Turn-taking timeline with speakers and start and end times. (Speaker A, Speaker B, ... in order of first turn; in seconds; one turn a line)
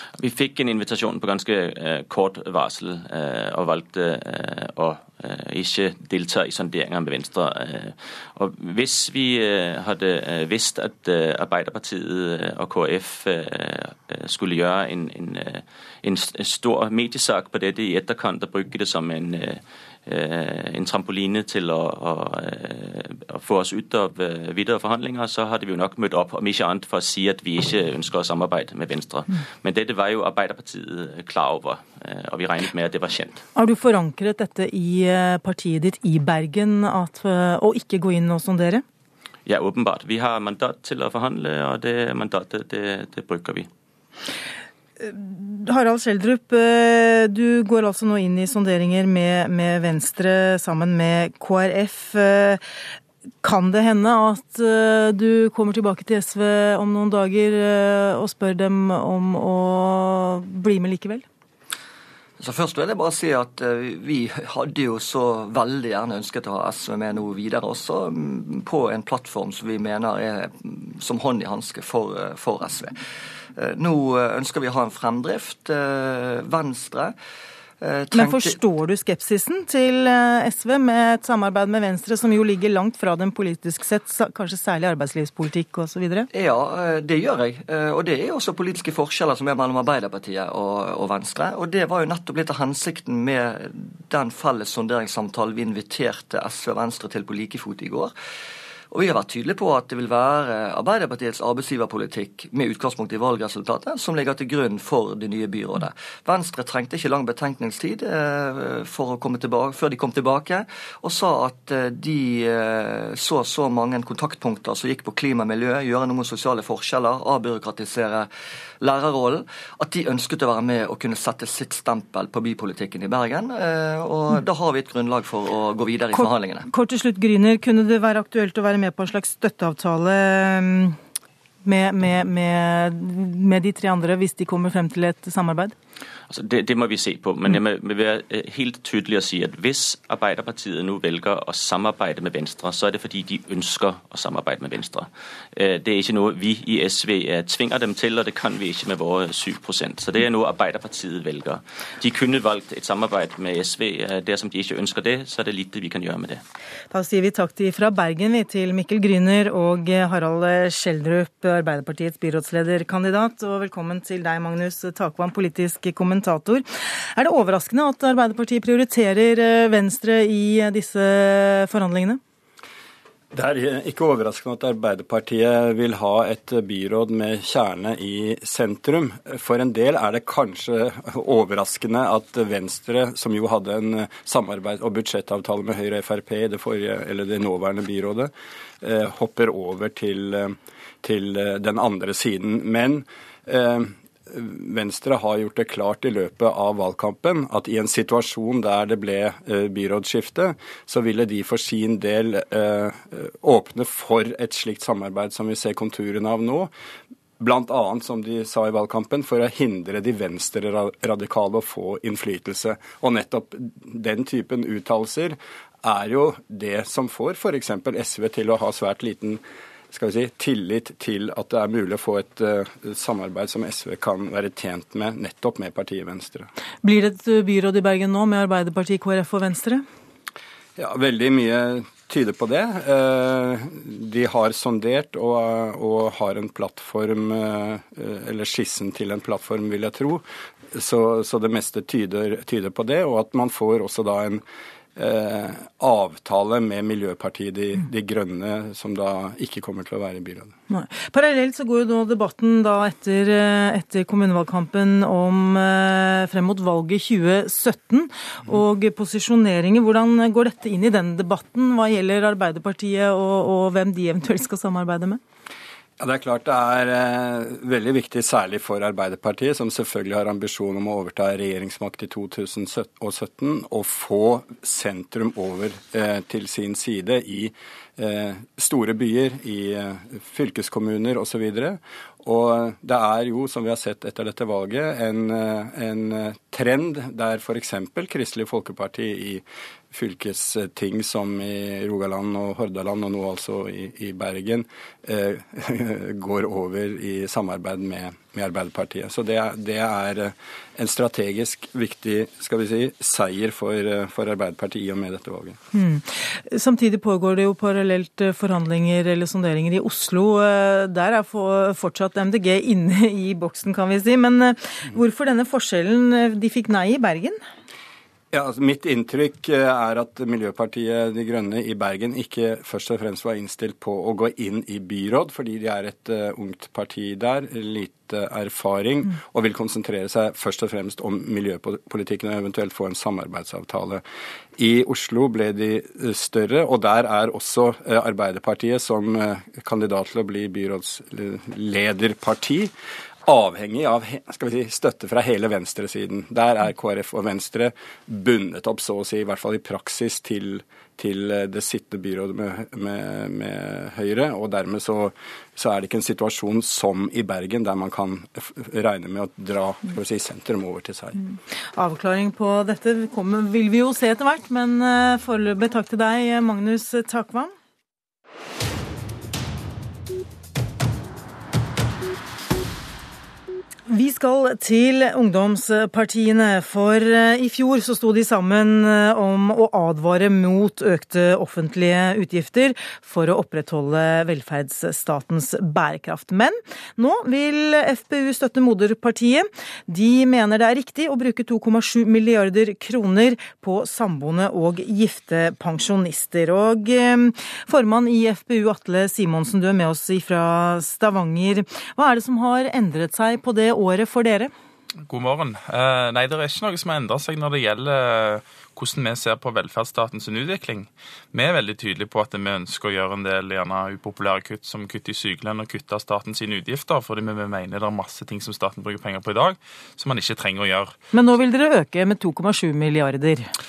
Speaker A: 0.2-33.4
Speaker B: 33.5-38.8
Speaker A: 39.5-43.7
Speaker B: 45.0-52.6
Speaker B: 53.4-61.2
Speaker C: 62.4-72.9
Speaker C: 73.6-77.1
Speaker C: 77.8-78.6
Speaker B: 78.1-86.3
Speaker C: 86.3-98.1
Speaker C: 98.9-118.3
Speaker C: 118.8-126.7
Speaker B: 126.2-131.0
Speaker B: 131.6-135.7
Speaker A: 136.3-156.4
Speaker B: 156.9-166.6
Speaker B: 167.2-172.2
Speaker D: 173.3-206.7
Speaker D: 207.4-219.4
Speaker D: 219.9-226.5
Speaker B: 226.8-229.8
Speaker D: 230.8-244.4
Speaker D: 244.9-250.5
Speaker B: 250.7-265.2
Speaker D: 266.0-305.6
Speaker B: 305.7-317.4
Speaker D: 318.3-334.0
Speaker D: 334.6-342.7
Speaker D: 343.2-361.2
Speaker B: 361.7-367.5
Speaker B: 373.9-404.5
Speaker E: 405.1-420.9
Speaker B: 421.1-423.5